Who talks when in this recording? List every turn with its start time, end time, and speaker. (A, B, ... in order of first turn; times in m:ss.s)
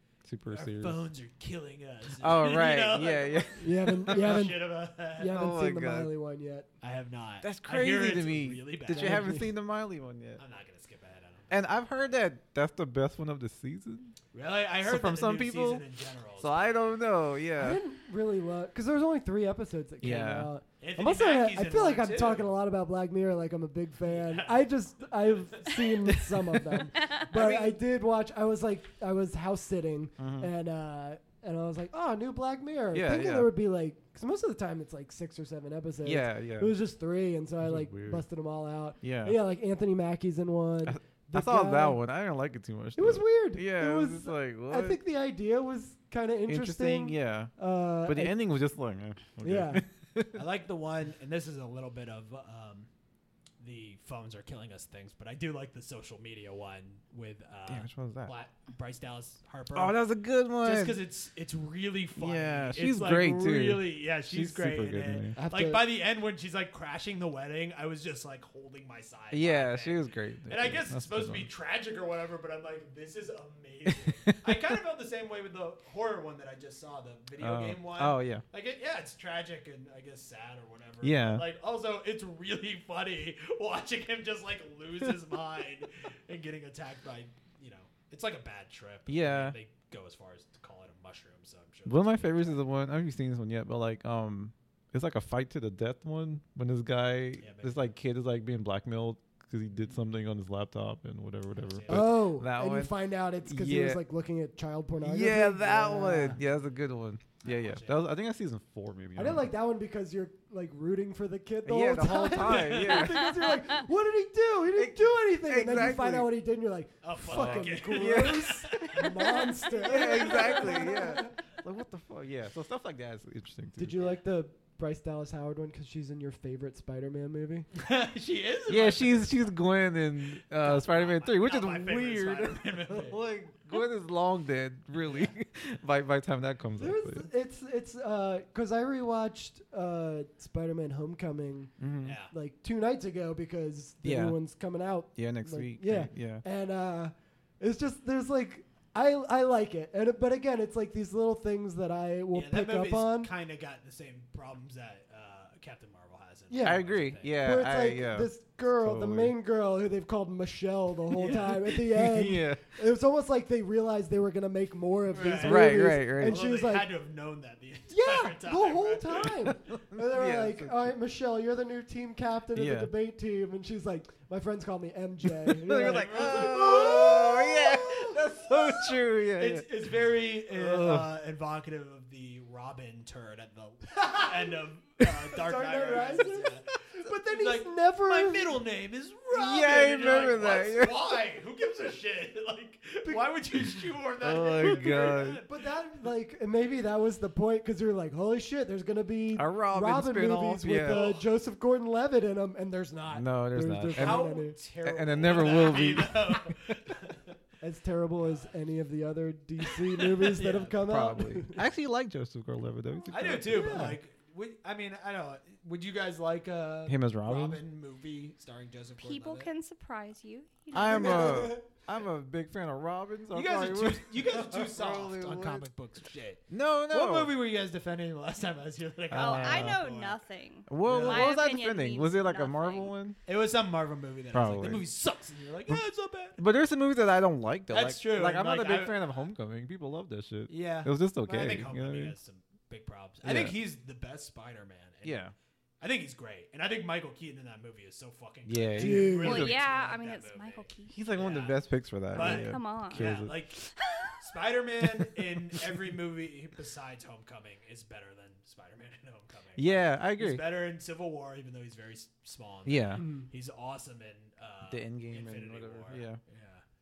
0:00.2-0:01.0 A
0:00.5-0:05.4 B
0:02.2-0:04.3 A
0:03.6-0:06.7 C
0:05.2-0:06.1 A
0:06.8-0:09.4 B
0:07.4-0:10.4 A
0:08.9-0:09.5 C
0:10.4-0:12.1 B
0:11.5-0:14.1 A
0:14.3-0:17.0 B
0:14.8-0:15.8 A
0:16.4-0:17.8 A
0:17.6-0:42.0 C
0:20.0-0:20.5 A
0:20.8-0:22.5 B
0:24.0-0:24.7 B
0:25.2-0:25.9 B
0:27.3-0:27.7 A
0:30.2-0:30.5 A
0:32.9-0:33.5 A
0:36.0-0:36.7 A
0:37.6-0:38.2 A
0:39.0-0:39.4 A
0:40.8-0:45.0 A
0:43.0-0:48.4 C
0:46.5-0:47.5 A
0:48.0-0:50.4 A
0:49.4-0:49.8 C
0:50.3-0:52.9 B
0:53.6-1:00.0 B
0:57.7-0:58.3 A
0:59.7-1:01.0 A
1:00.6-1:32.6 B
1:02.2-1:05.4 A
1:05.4-1:05.9 C
1:09.3-1:11.5 A
1:13.9-1:14.4 A
1:17.4-1:18.4 A
1:21.0-1:21.4 A
1:29.1-1:29.6 A
1:31.8-1:44.0 A
1:37.4-1:37.9 B
1:41.6-1:42.2 B
1:41.9-1:46.4 C
1:45.0-1:49.5 A
1:46.2-1:46.6 B
1:47.4-1:48.0 B
1:49.2-2:01.3 C
1:51.6-1:53.4 A
1:52.4-1:53.2 B
1:53.2-1:53.6 D
1:54.8-1:56.3 A
1:57.0-2:01.1 B
1:57.2-2:04.1 A
2:03.8-2:07.7 C
2:07.7-2:09.6 B
2:08.7-2:17.3 A
2:10.6-2:13.2 B
2:15.0-2:15.3 B
2:16.8-2:33.3 C
2:21.8-2:22.2 A
2:22.0-2:22.3 B
2:24.0-2:24.4 A
2:25.2-2:26.4 A
2:32.3-2:37.4 B
2:36.5-2:46.9 C
2:36.6-2:39.3 A
2:41.1-2:41.6 B
2:41.6-2:42.6 A
2:45.1-2:49.5 B
2:45.4-2:46.4 A
2:47.9-2:57.1 C
2:49.7-2:50.9 A
2:52.5-2:52.9 A
2:55.5-2:59.7 A
2:55.7-3:15.6 B
3:00.5-3:01.1 A
3:05.3-3:08.6 C
3:09.3-3:11.2 A
3:14.2-3:15.4 A
3:14.7-3:24.6 C
3:19.3-3:21.0 A
3:20.8-3:21.3 B
3:23.1-3:24.3 A
3:23.9-3:27.4 B
3:24.8-3:26.8 A
3:27.6-3:31.6 C
3:28.2-3:28.5 B
3:29.6-3:30.8 B
3:30.8-3:34.0 A
3:33.0-3:33.4 D
3:33.1-3:39.5 B
3:33.5-3:34.0 C
3:36.9-3:37.6 A
3:39.0-3:41.5 D
3:40.7-3:45.6 A
3:40.8-3:41.6 C
3:43.3-3:50.2 B
3:46.5-3:47.3 A
3:49.1-3:49.8 A
3:49.1-3:52.9 D
3:50.7-3:53.2 A
3:50.8-3:51.4 B
3:53.2-3:56.4 B
3:54.3-3:54.9 A
3:56.4-4:02.1 A
3:57.7-3:59.2 B
4:00.5-4:05.3 B
4:03.2-4:03.6 A
4:05.0-4:05.3 A
4:05.8-4:13.7 B
4:08.4-4:09.6 A
4:08.7-4:09.4 C
4:09.2-4:11.0 D
4:10.9-4:13.4 A
4:12.1-4:13.1 D
4:14.2-4:26.6 B
4:19.6-4:20.4 A
4:22.6-4:23.1 A
4:24.7-4:26.2 A